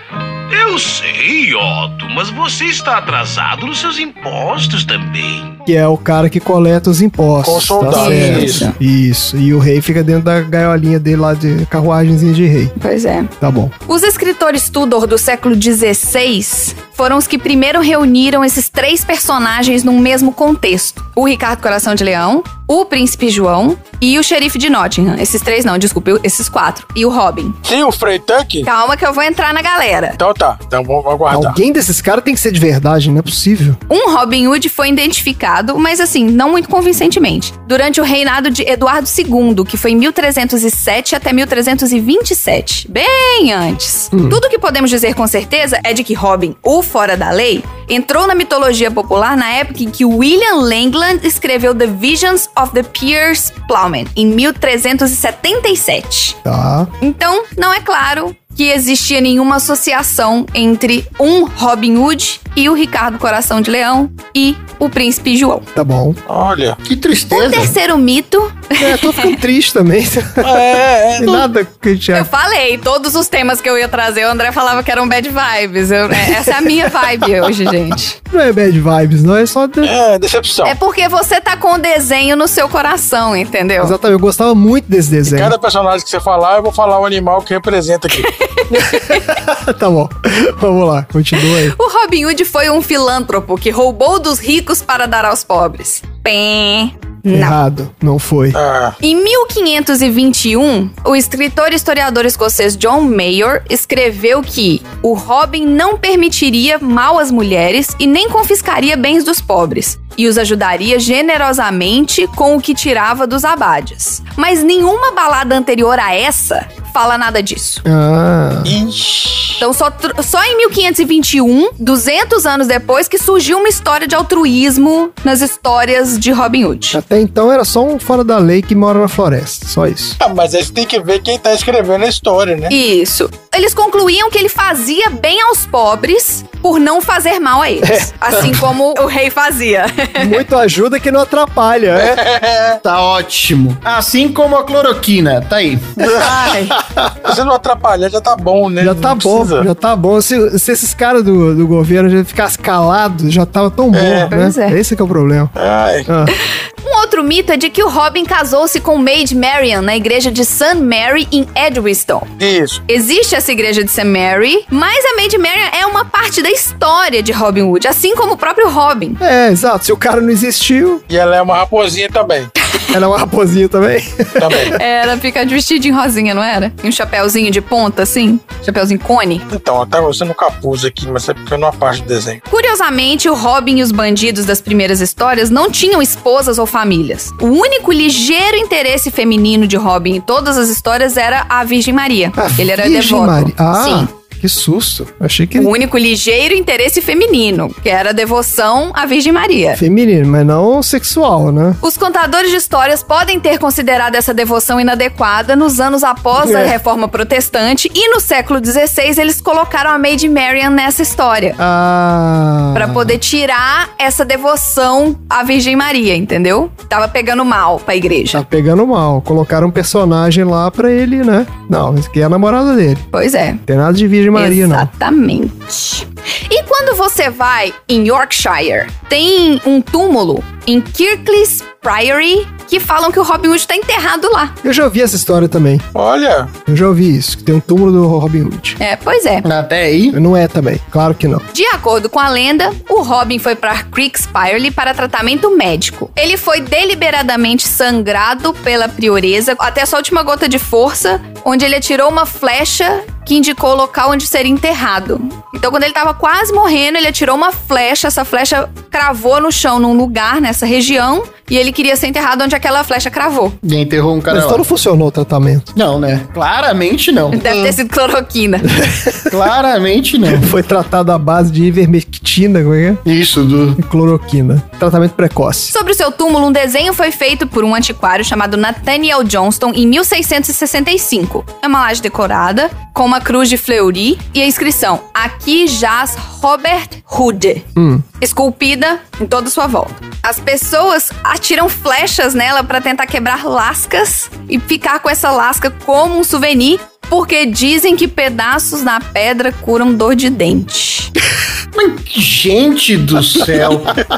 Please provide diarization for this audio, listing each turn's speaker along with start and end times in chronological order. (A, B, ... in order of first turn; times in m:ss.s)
0:00.5-0:05.6 A
0:05.6-0:12.7 B
0:07.4-0:08.6 C
0:07.9-0:08.7 D
0:12.8-0:13.3 D
0:13.4-0:13.7 B
0:13.9-0:27.6 D
0:27.6-0:28.7 C
0:28.6-0:30.2 D
0:30.2-0:31.6 C
0:31.3-0:33.8 B
0:33.9-0:56.4 D
0:44.1-0:44.4 B
0:56.4-0:56.9 B
0:57.0-1:05.6 D
1:05.7-1:06.2 B
1:06.3-1:06.8 C
1:06.8-1:07.8 E
1:07.3-1:09.4 D
1:08.8-1:12.3 B
1:10.4-1:11.4 C
1:12.1-1:18.2 D
1:16.2-1:16.7 B
1:18.3-1:19.9 B
1:19.8-1:20.7 C
1:20.6-1:23.9 D
1:23.8-1:25.5 B
1:25.3-1:28.3 C
1:28.2-1:29.2 D
1:28.7-1:31.7 B
1:31.6-1:37.6 D
1:37.3-1:38.6 B
1:38.5-1:39.0 C
1:39.0-1:57.8 D
1:57.8-1:58.8 B
1:58.6-1:59.6 C
1:59.6-2:07.0 D
2:06.9-2:10.2 B
2:10.2-2:12.7 C
2:12.7-2:20.4 D
2:17.8-2:18.6 B
2:20.2-2:22.2 B
2:22.0-2:22.8 C
2:22.8-2:26.5 E
2:26.0-2:26.3 C
2:26.1-2:26.7 D
2:27.2-2:29.6 C
2:28.8-2:35.5 B
2:33.9-2:34.3 C
2:34.3-2:34.8 D
2:35.6-2:36.0 C
2:36.0-2:36.4 B
2:36.8-2:42.3 D
2:42.4-2:42.8 C
2:42.9-2:49.2 D
2:49.2-2:51.0 B
2:51.1-2:52.5 C
2:52.9-2:54.7 B
2:54.4-2:54.8 C
2:54.6-2:59.4 D
2:59.5-3:02.4 C
3:02.5-3:14.1 D
3:12.4-3:15.7 B
3:15.5-3:19.8 D
3:19.8-3:21.8 B
3:21.8-3:31.6 D
3:26.4-3:26.8 B
3:31.6-3:33.2 B
3:32.7-3:38.4 D
3:38.3-3:43.0 B
3:43.1-3:43.6 D
3:43.6-3:44.9 B
3:44.3-3:54.5 D
3:54.6-3:55.8 B
3:55.9-3:56.5 C
3:56.7-3:58.8 B
3:58.8-3:59.4 D
3:59.4-4:00.2 E
4:00.1-4:01.4 B
4:01.5-4:23.6 D
4:23.6-4:24.6 E
4:24.3-4:25.7 B
4:25.7-4:27.8 E
4:27.3-4:28.6 D
4:28.7-4:29.4 B
4:29.3-4:30.5 E
4:30.3-4:33.0 B
4:33.0-4:33.8 E
4:33.8-4:35.7 B
4:35.7-4:47.6 D
4:47.8-4:48.0 B
4:48.2-5:01.1 D
5:01.7-5:04.0 E